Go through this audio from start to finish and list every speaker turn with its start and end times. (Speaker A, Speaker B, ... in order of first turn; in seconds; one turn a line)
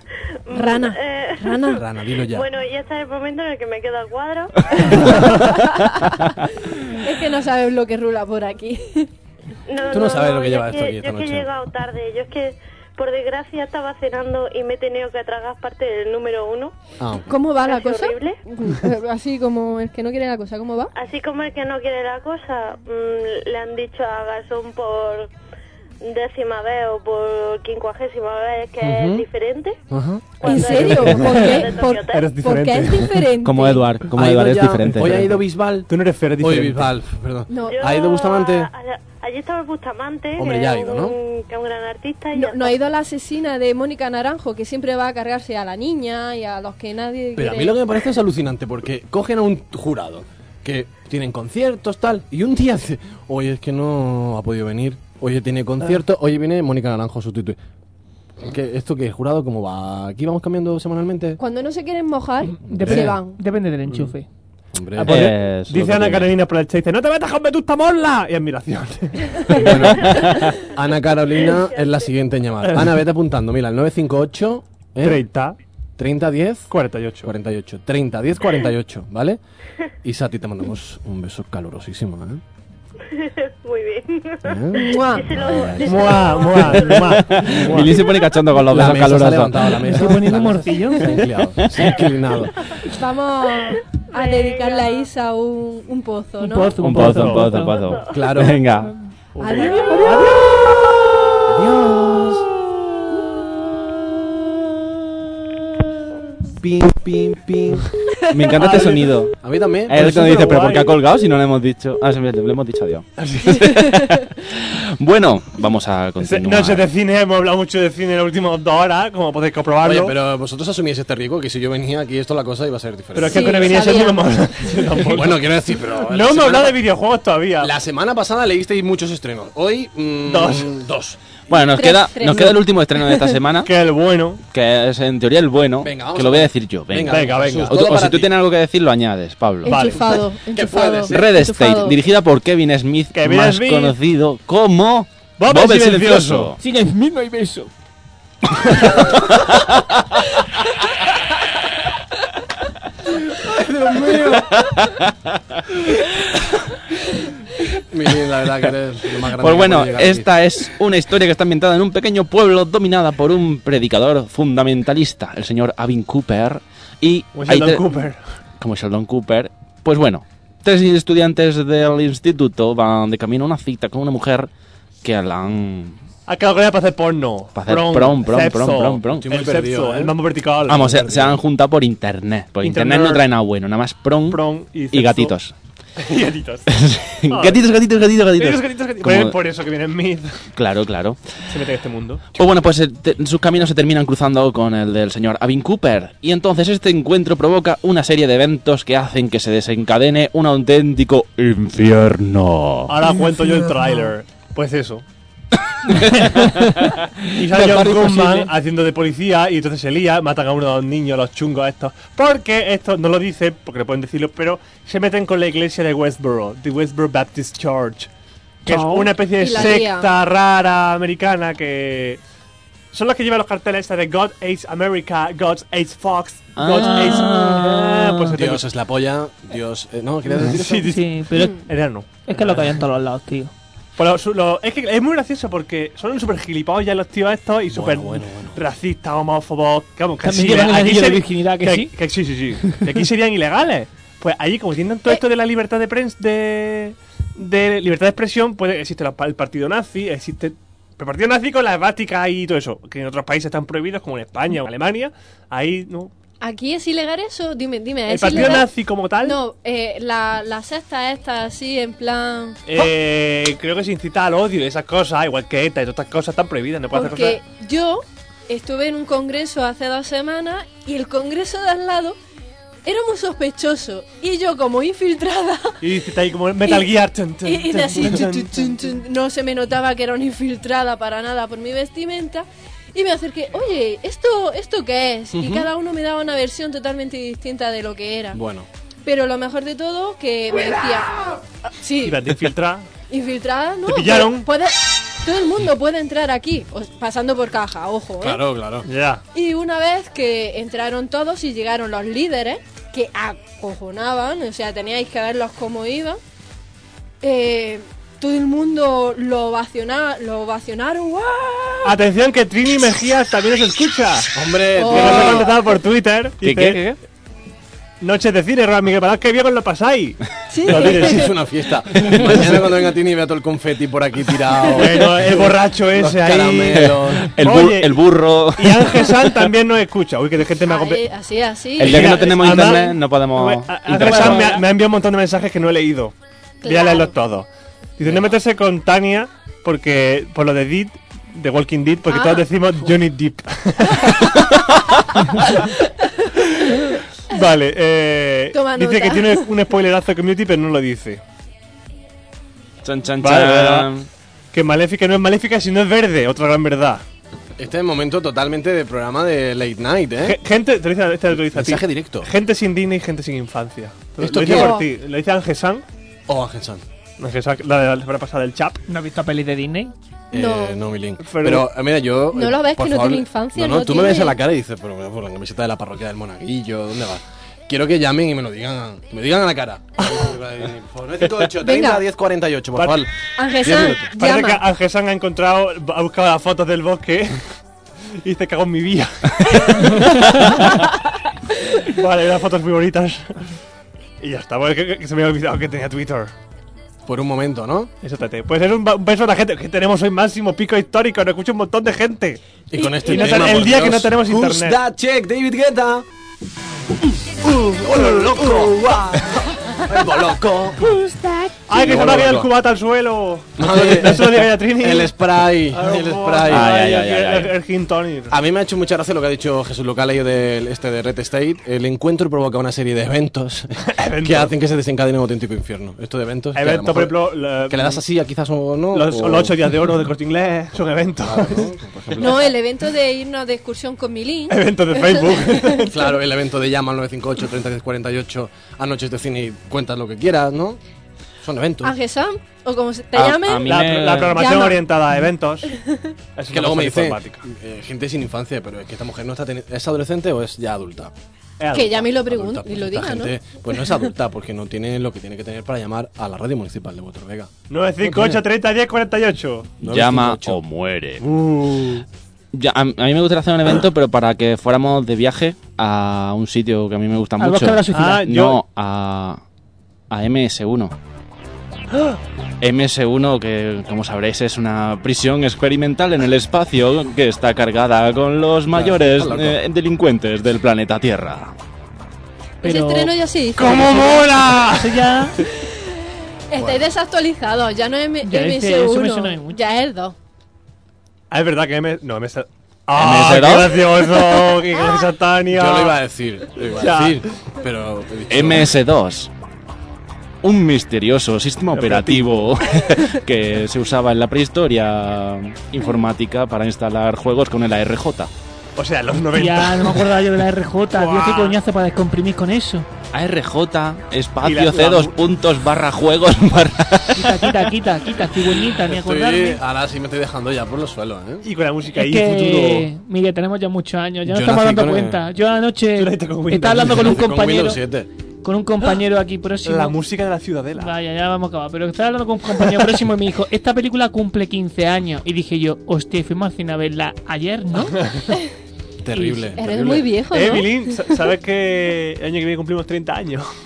Speaker A: 0.5-5.6
Speaker B: 0.5-1.8
Speaker C: 1.7-2.5
Speaker B: 4.9-6.2
Speaker B: 7.0-9.1
Speaker A: 9.7-16.8
Speaker C: 9.9-11.5
Speaker C: 17.0-17.3
Speaker B: 17.3-20.9
Speaker A: 17.6-18.4
Speaker A: 20.9-25.3
Speaker A: 26.0-29.8
Speaker C: 28.8-29.2
Speaker C: 29.9-31.1
Speaker A: 30.4-32.4
Speaker B: 30.4-33.9
Speaker D: 31.1-33.2
Speaker E: 33.4-35.4
Speaker C: 34.1-35.9
Speaker D: 35.9-36.9
Speaker C: 36.4-38.7
Speaker B: 37.5-37.9
Speaker A: 37.7-42.8
Speaker C: 40.4-41.1
Speaker B: 42.3-47.8
Speaker C: 47.4-57.6
Speaker C: 58.4-61.4
Speaker B: 61.4-63.4
Speaker F: 62.6-64.3
Speaker C: 62.6-63.1
Speaker C: 64.7-65.2
Speaker D: 65.0-70.4
Speaker E: 65.0-66.3
Speaker C: 69.5-75.3
Speaker E: 69.9-70.4
Speaker A: 71.5-72.1
Speaker D: 72.6-73.0
Speaker D: 75.0-75.6
Speaker C: 76.0-76.7
Speaker D: 76.7-77.3
Speaker C: 77.2-79.4
Speaker C: 80.0-82.4
Speaker A: 83.1-87.2
Speaker C: 84.5-85.9
Speaker B: 84.7-86.0
Speaker D: 85.8-87.9
Speaker E: 86.6-89.9
Speaker A: 88.0-88.2
Speaker C: 88.6-92.7
Speaker F: 89.8-91.3
Speaker B: 92.9-96.8
Speaker A: 93.7-95.1
Speaker F: 96.4-97.8
Speaker E: 96.8-99.0
Speaker D: 97.0-97.5
Speaker A: 97.7-98.4
Speaker C: 98.1-98.6
Speaker D: 99.4-100.5
Speaker B: 99.4-100.3
Speaker C: 101.5-101.9
Speaker E: 101.5-102.4
Speaker E: 106.6-109.3
Speaker D: 108.5-109.2
Speaker C: 109.4-110.5
Speaker E: 109.9-116.9
Speaker D: 109.9-111.0
Speaker D: 113.2-113.8
Speaker D: 116.2-120.2
Speaker C: 119.8-124.0
Speaker D: 123.2-127.7
Speaker B: 123.3-124.8
Speaker C: 125.0-126.8
Speaker C: 127.6-131.2
Speaker D: 130.3-130.7
Speaker E: 131.5-133.7
Speaker B: 131.5-133.3
Speaker D: 133.6-134.4
Speaker E: 134.5-139.8
Speaker C: 135.8-138.3
Speaker D: 137.1-137.7
Speaker B: 139.6-142.0
Speaker D: 139.7-140.0
Speaker C: 140.5-141.3
Speaker E: 141.1-146.6
Speaker D: 143.1-144.0
Speaker D: 145.4-146.5
Speaker F: 146.6-147.7
Speaker E: 148.6-149.7
Speaker C: 153.3-154.6
Speaker E: 154.4-155.6
Speaker C: 157.9-160.3
Speaker E: 159.4-167.8
Speaker D: 167.3-168.2
Speaker E: 168.6-174.5
Speaker E: 175.0-176.0
Speaker D: 176.3-181.4
Speaker E: 177.6-179.3
Speaker C: 179.1-180.2
Speaker E: 180.7-185.5
Speaker D: 182.6-183.3
Speaker D: 184.3-185.3
Speaker D: 186.0-186.7
Speaker E: 186.7-189.4
Speaker D: 187.3-187.6
Speaker D: 188.4-190.5
Speaker E: 190.6-191.4
Speaker D: 191.5-192.3
Speaker E: 192.3-203.0
Speaker D: 202.9-205.0
Speaker E: 205.8-206.9
Speaker D: 207.3-218.1
Speaker E: 207.5-208.5
Speaker D: 218.7-222.2
Speaker F: 218.7-219.1
Speaker B: 219.4-220.1
Speaker D: 222.9-228.7
Speaker E: 226.6-227.4
Speaker F: 226.8-228.4
Speaker C: 228.3-231.0
Speaker D: 230.3-232.6
Speaker F: 230.8-231.7
Speaker B: 231.3-231.6
Speaker F: 232.2-233.5
Speaker C: 232.3-232.6
Speaker D: 234.0-256.1
Speaker C: 237.7-238.6
Speaker F: 240.2-241.9
Speaker B: 256.4-262.6
Speaker D: 258.1-259.4
Speaker D: 262.7-267.4
Speaker B: 266.9-272.2
Speaker B: 272.9-275.8
Speaker D: 275.8-278.8
Speaker B: 276.6-276.9
Speaker B: 277.4-288.4
Speaker C: 285.3-285.7
Speaker C: 288.3-288.7
Speaker B: 289.1-292.3
Speaker D: 292.0-292.9
Speaker B: 293.1-298.4
Speaker D: 293.9-294.5
Speaker C: 298.2-298.9
Speaker D: 298.9-299.2
Speaker B: 299.3-306.2
Speaker B: 307.2-312.0
Speaker D: 311.9-314.3
Speaker C: 314.4-315.5
Speaker B: 314.8-315.5
Speaker D: 314.9-317.0
Speaker E: 316.4-316.8
Speaker D: 318.0-321.3
Speaker B: 320.5-321.3
Speaker C: 320.6-327.3
Speaker D: 322.0-322.7
Speaker D: 324.7-331.0
Speaker E: 326.8-329.3
Speaker B: 330.7-332.9
Speaker E: 331.8-334.6
Speaker D: 331.8-344.4
Speaker B: 334.0-334.6
Speaker B: 336.6-337.1
Speaker B: 342.1-342.5
Speaker D: 346.4-351.2
Speaker B: 348.5-349.5
Speaker E: 352.8-354.1
Speaker D: 353.2-353.9
Speaker D: 354.5-357.0
Speaker C: 357.6-360.4
Speaker D: 360.2-365.8
Speaker C: 361.4-362.3
Speaker C: 364.2-364.8
Speaker B: 364.5-364.9
Speaker C: 366.3-366.8
Speaker D: 367.2-368.8
Speaker F: 368.9-369.9
Speaker C: 370.3-383.1
Speaker B: 370.3-370.8
Speaker D: 371.2-371.7
Speaker B: 372.3-374.4
Speaker B: 381.6-382.0
Speaker D: 382.8-383.1
Speaker B: 383.4-384.6
Speaker C: 383.6-384.1
Speaker D: 384.1-387.4
Speaker D: 388.2-390.8
Speaker D: 391.8-393.4
Speaker D: 394.2-396.3
Speaker C: 397.1-397.9
Speaker D: 398.0-402.4
Speaker C: 402.7-406.1
Speaker B: 402.8-403.6
Speaker D: 403.1-404.8
Speaker C: 407.4-410.9
Speaker D: 407.9-408.7
Speaker F: 411.0-411.5
Speaker D: 411.7-415.1
Speaker C: 411.7-412.5
Speaker C: 413.6-416.8
Speaker D: 415.7-418.4
Speaker E: 416.5-417.5
Speaker C: 418.3-429.7
Speaker D: 423.8-424.6
Speaker D: 426.5-428.0
Speaker D: 428.9-431.7
Speaker C: 431.2-432.5
Speaker B: 432.2-435.7
Speaker D: 434.5-436.1
Speaker C: 435.9-440.8
Speaker C: 441.4-441.9
Speaker B: 441.8-443.8
Speaker E: 443.1-444.6
Speaker D: 443.7-445.7
Speaker B: 444.3-446.1
Speaker D: 446.4-447.4
Speaker C: 446.5-451.1
Speaker D: 451.6-452.1
Speaker B: 451.7-453.4
Speaker C: 451.8-458.4
Speaker D: 457.7-459.7
Speaker E: 459.8-461.3
Speaker C: 459.8-460.6
Speaker D: 461.2-462.0
Speaker E: 462.5-469.4
Speaker F: 467.4-468.3
Speaker D: 467.9-468.6
Speaker E: 470.1-470.9
Speaker E: 472.6-481.5
Speaker C: 478.7-479.6
Speaker B: 482.6-484.3
Speaker F: 482.6-483.1
Speaker D: 483.6-485.0
Speaker F: 483.7-485.4
Speaker B: 485.5-485.8
Speaker B: 486.5-490.1
Speaker C: 486.5-486.9
Speaker F: 488.2-489.6
Speaker D: 491.3-496.0
Speaker E: 492.9-493.9
Speaker C: 495.5-498.8
Speaker D: 496.8-497.3
Speaker E: 498.3-499.3
Speaker E: 500.4-508.3
Speaker D: 501.7-502.6
Speaker D: 508.8-510.2
Speaker F: 509.3-512.9
Speaker D: 510.9-511.6
Speaker E: 513.1-517.6
Speaker D: 514.4-515.2
Speaker F: 517.2-519.6
Speaker C: 518.9-521.5
Speaker D: 521.4-522.9
Speaker F: 521.9-527.8
Speaker C: 524.3-525.2
Speaker D: 526.0-527.1
Speaker C: 526.6-528.1
Speaker F: 528.4-530.0
Speaker D: 529.6-530.9
Speaker F: 530.8-538.1
Speaker C: 539.0-540.1
Speaker F: 539.1-539.5
Speaker B: 539.6-541.1
Speaker D: 540.3-543.5